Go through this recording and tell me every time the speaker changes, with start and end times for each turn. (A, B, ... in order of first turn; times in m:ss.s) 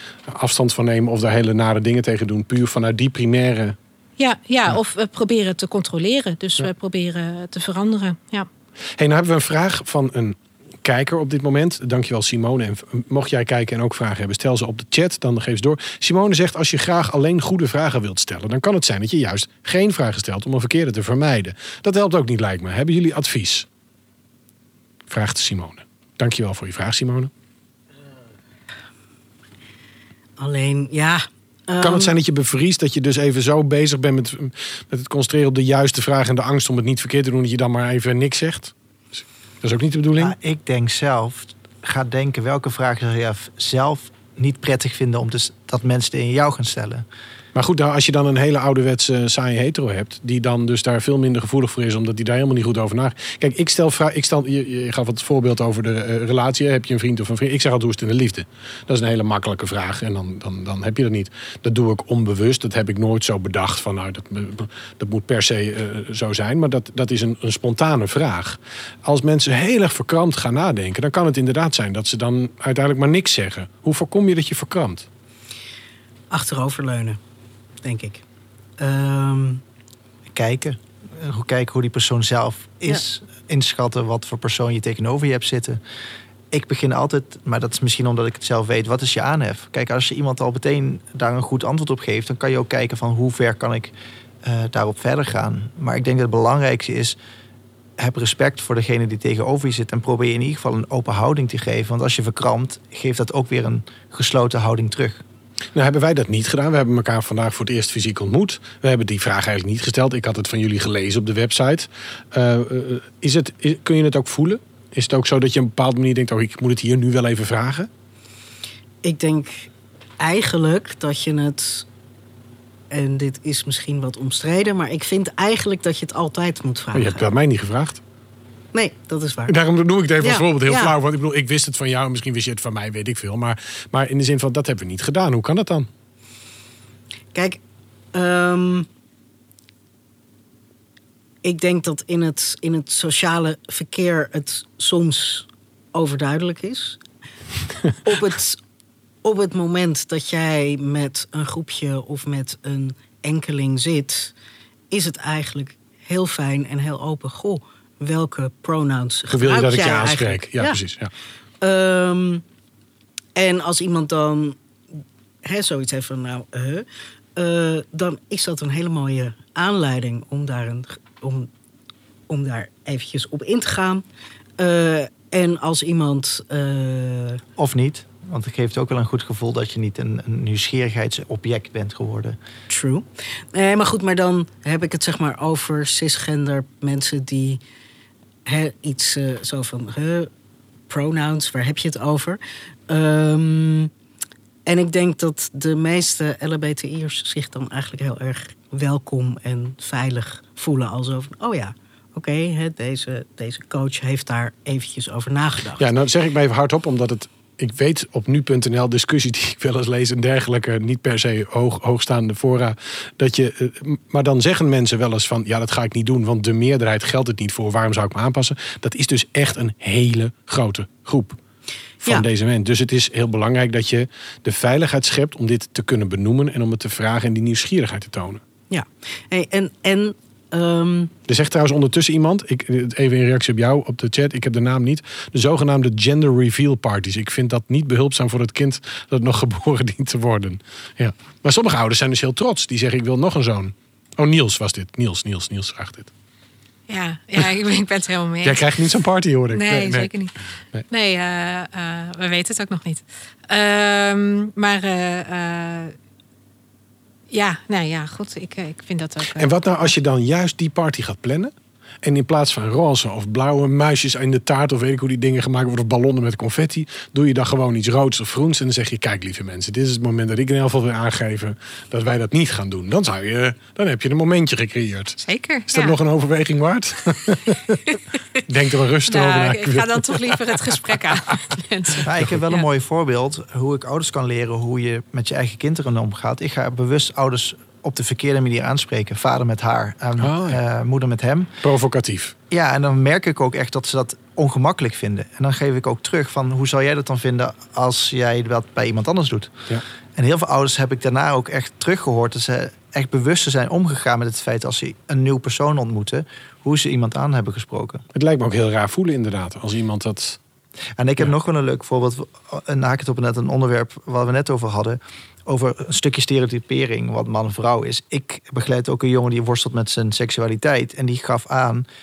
0:00.3-0:03.8 A
0:04.2-0:08.5 B
0:09.0-0:23.6 A
0:25.1-0:27.3 A
0:30.4-0:32.1 C
0:31.8-0:38.7 A
0:39.6-0:40.3 A
0:40.2-0:47.0 D
0:47.5-1:15.0 A
1:16.3-1:17.2 C
1:17.8-1:18.2 C
1:18.8-1:19.6 C
1:20.3-1:25.8 D
1:26.5-1:37.2 D
1:38.0-1:45.2 D
1:45.7-1:57.9 A
1:59.0-2:01.8 C
2:02.9-2:07.2 C
2:06.9-2:08.0 A
2:08.7-2:09.5 C
2:09.5-2:15.9 A
2:10.2-2:10.9 C
2:17.3-2:17.6 C
2:18.1-2:18.9 C
2:21.4-2:27.0 C
2:28.0-2:28.6 C
2:29.2-2:34.3 C
2:34.9-2:40.8 C
2:39.3-2:41.1 A
2:41.6-2:42.4 C
2:43.4-2:44.6 C
2:45.4-2:51.5 C
2:52.3-2:54.0 C
2:54.6-2:57.4 C
2:57.6-3:02.4 D
3:02.7-3:07.6 C
3:08.4-3:10.3 C
3:10.9-3:13.9 C
3:14.6-3:25.8 C
3:25.8-3:41.4 A
3:42.0-3:48.4 A
3:48.7-3:51.1 C
3:51.3-4:06.1 A
4:06.9-4:08.6 B
4:08.4-4:10.1 A
4:09.5-4:10.4 B
4:10.9-4:15.9 B
4:17.3-4:19.9 B
4:19.3-4:37.8 A
4:35.2-4:36.0 B
4:37.9-4:38.2 B
4:38.5-4:40.4 A
4:39.1-4:42.6 B
4:42.0-4:51.6 D
4:50.2-4:50.6 A
4:51.6-4:52.3 A
4:52.5-4:59.5 D
5:00.2-5:08.0 D
5:08.1-5:10.4 A
5:11.0-5:21.8 D